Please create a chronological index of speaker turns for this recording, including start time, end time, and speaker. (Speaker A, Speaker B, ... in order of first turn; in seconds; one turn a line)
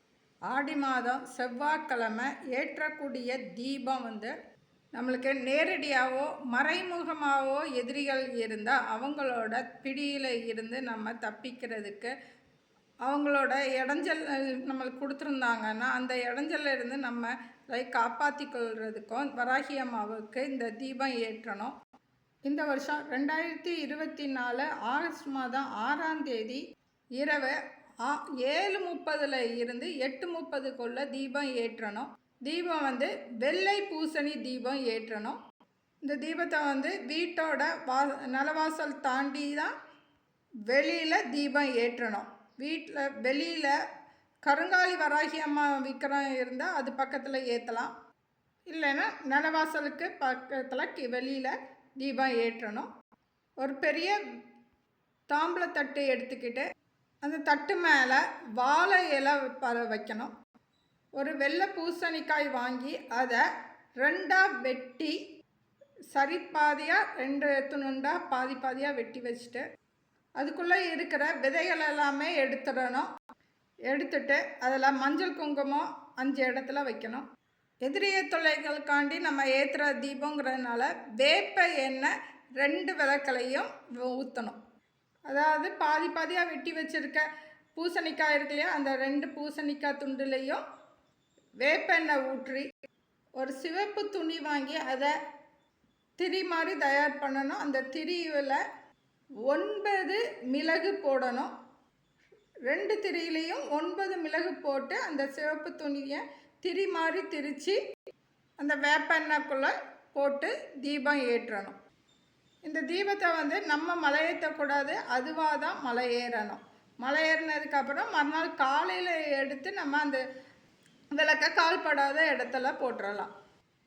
Speaker A: 0.5-4.3
Speaker A: 4.9-12.1
Speaker A: 13.0-21.7
Speaker A: 22.5-26.6
Speaker A: 27.2-35.4
Speaker A: 36.0-39.7
Speaker A: 40.7-43.7
Speaker A: 44.4-47.9
Speaker A: 48.7-52.9
Speaker A: 53.6-54.2
Speaker A: 55.3-56.6
Speaker A: 57.2-60.3
Speaker A: 61.2-63.4
Speaker A: 64.0-65.2
Speaker A: 66.1-69.6
Speaker A: 70.4-73.1
Speaker A: 73.9-77.2
Speaker A: 77.8-84.6
Speaker A: 85.3-87.2
Speaker A: 87.8-90.6
Speaker A: 91.6-92.7
Speaker A: 93.4-95.1
Speaker A: 96.2-98.6
Speaker A: 99.5-101.5
Speaker A: 102.7-107.8
Speaker A: 108.6-111.7
Speaker A: 112.6-120.2
Speaker A: 121.1-123.3